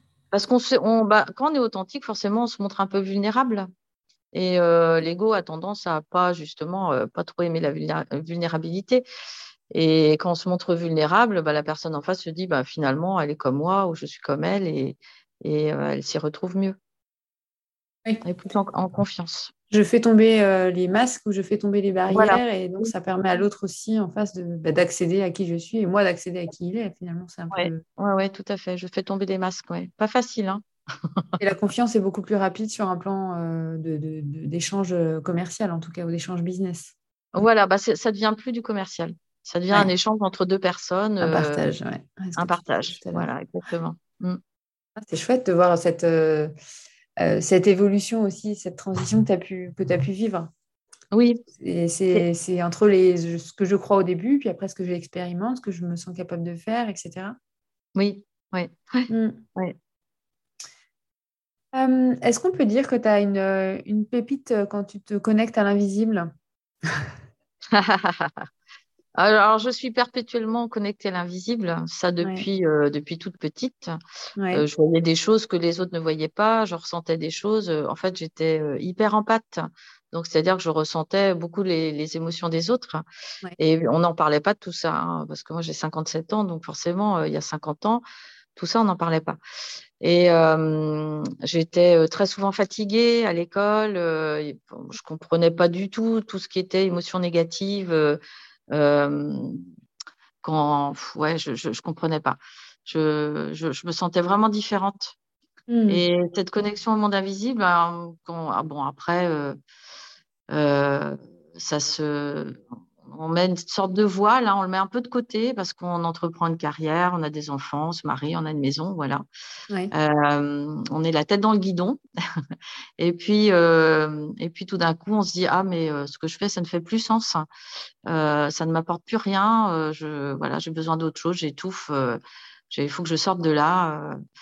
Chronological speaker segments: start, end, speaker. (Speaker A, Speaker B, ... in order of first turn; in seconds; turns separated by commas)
Speaker A: 0.3-3.7, Speaker A: 4.3-9.0, Speaker A: 9.7-16.8, Speaker A: 18.2-19.5, Speaker B: 19.7-27.8, Speaker A: 22.1-22.9, Speaker A: 27.5-31.3, Speaker B: 31.4-37.0, Speaker A: 37.3-41.7, Speaker B: 41.2-43.3, Speaker A: 42.4-44.4, Speaker B: 45.0-46.5, Speaker B: 47.2-50.5, Speaker A: 51.1-51.4, Speaker B: 51.5-57.4, Speaker A: 58.0-59.8, Speaker B: 59.1-59.4, Speaker B: 61.7-66.3, Speaker A: 67.7-68.5, Speaker A: 69.2-73.9, Speaker B: 72.2-72.5, Speaker B: 74.4-74.6, Speaker A: 74.5-83.0, Speaker A: 83.6-88.0, Speaker A: 88.5-89.4, Speaker A: 90.0-98.2, Speaker A: 98.7-99.6, Speaker A: 100.4-105.2, Speaker B: 105.7-106.0, Speaker A: 105.9-109.6, Speaker A: 110.5-119.2, Speaker A: 119.9-122.0, Speaker A: 123.0-127.5, Speaker A: 128.1-134.2